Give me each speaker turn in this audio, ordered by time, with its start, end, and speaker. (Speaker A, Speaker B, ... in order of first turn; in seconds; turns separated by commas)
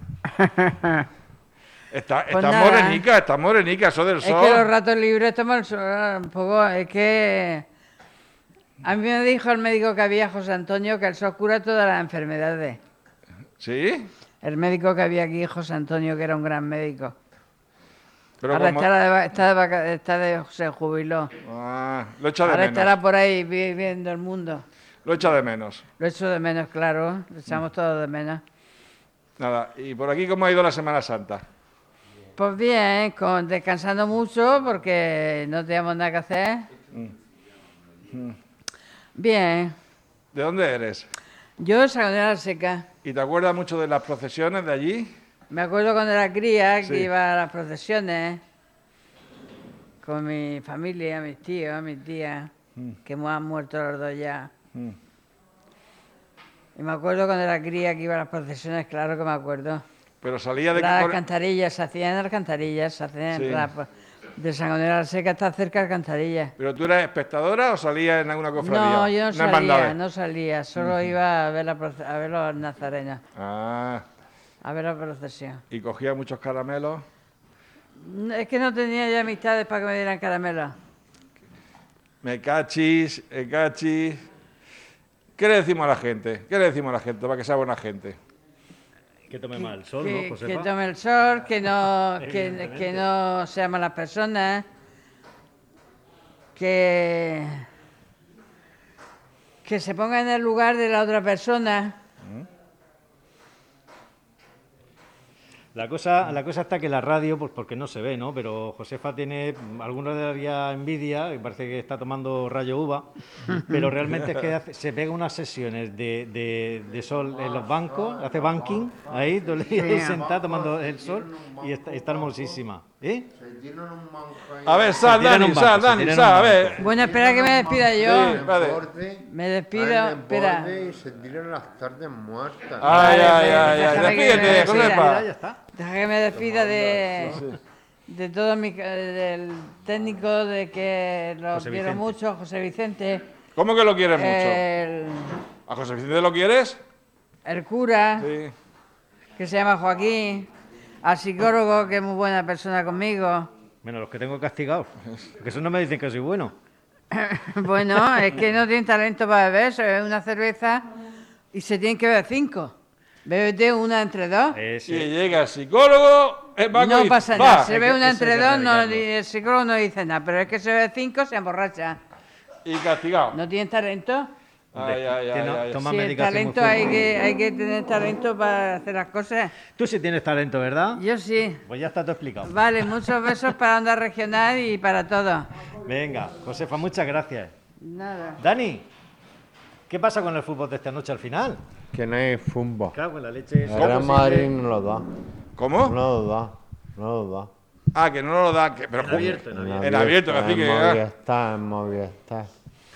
Speaker A: 0.4-1.0, Speaker B: 1.9-4.7, Speaker A: 2.3-3.1, Speaker A: 4.2-7.7, Speaker A: 8.8-12.8, Speaker B: 13.6-14.1, Speaker A: 14.4-17.1, Speaker B: 18.4-18.9, Speaker A: 18.5-21.3, Speaker B: 21.4-23.0, Speaker A: 22.4-24.6, Speaker B: 25.1-25.8, Speaker A: 26.0-28.4, Speaker B: 29.4-31.4, Speaker A: 32.4-36.7, Speaker B: 38.1-38.4, Speaker A: 39.2-39.7, Speaker B: 40.3-41.1, Speaker A: 41.6-42.9, Speaker B: 43.0-45.1, Speaker A: 45.5-48.4, Speaker B: 46.8-47.1, Speaker A: 50.0-52.5, Speaker A: 53.0-54.5, Speaker A: 56.8-59.8, Speaker B: 60.2-61.2, Speaker A: 60.7-66.5, Speaker B: 63.3-63.7, Speaker B: 66.6-70.0, Speaker A: 68.6-73.2, Speaker B: 70.8-71.1, Speaker B: 73.4-74.0, Speaker A: 74.6-75.6, Speaker B: 75.7-77.0, Speaker A: 78.0-80.7, Speaker B: 82.2-84.2, Speaker B: 85.4-88.2, Speaker C: 89.3-90.7, Speaker A: 89.9-94.7, Speaker C: 92.2-93.0, Speaker A: 96.6-97.6, Speaker A: 99.6-102.0, Speaker C: 105.7-123.3, Speaker D: 117.0-122.6, Speaker D: 123.3-125.2, Speaker B: 124.7-126.8, Speaker C: 125.0-126.8, Speaker A: 126.8-128.5, Speaker D: 126.8-133.1, Speaker B: 128.0-128.8, Speaker A: 129.2-130.7, Speaker B: 132.8-135.2, Speaker C: 132.9-135.6, Speaker A: 133.0-135.1, Speaker A: 135.7-137.4, Speaker C: 136.3-137.4, Speaker A: 138.1-143.2, Speaker C: 141.5-142.2, Speaker B: 143.6-144.6, Speaker A: 144.2-145.3, Speaker B: 145.7-146.8, Speaker A: 147.5-148.3, Speaker B: 148.2-148.5, Speaker A: 149.4-150.5, Speaker A: 151.0-153.5, Speaker C: 153.8-156.6, Speaker A: 157.1-160.8, Speaker A: 161.5-162.7, Speaker A: 163.2-164.6, Speaker C: 164.5-165.1, Speaker B: 164.9-167.7, Speaker A: 166.7-172.0, Speaker C: 167.3-169.1, Speaker B: 172.7-173.4, Speaker A: 173.3-174.3, Speaker B: 174.8-175.8, Speaker C: 174.8-177.2, Speaker A: 175.8-179.6, Speaker C: 179.7-181.0, Speaker A: 181.0-181.6, Speaker C: 181.6-182.7, Speaker A: 182.5-185.5, Speaker C: 185.8-187.5, Speaker A: 187.8-188.4, Speaker C: 188.4-188.9, Speaker C: 189.9-191.6, Speaker D: 191.9-193.0, Speaker C: 192.9-194.5, Speaker D: 193.7-195.0, Speaker B: 193.8-194.2, Speaker B: 195.6-196.0, Speaker D: 195.8-197.5, Speaker B: 197.9-201.0, Speaker C: 198.9-200.0, Speaker D: 199.5-202.5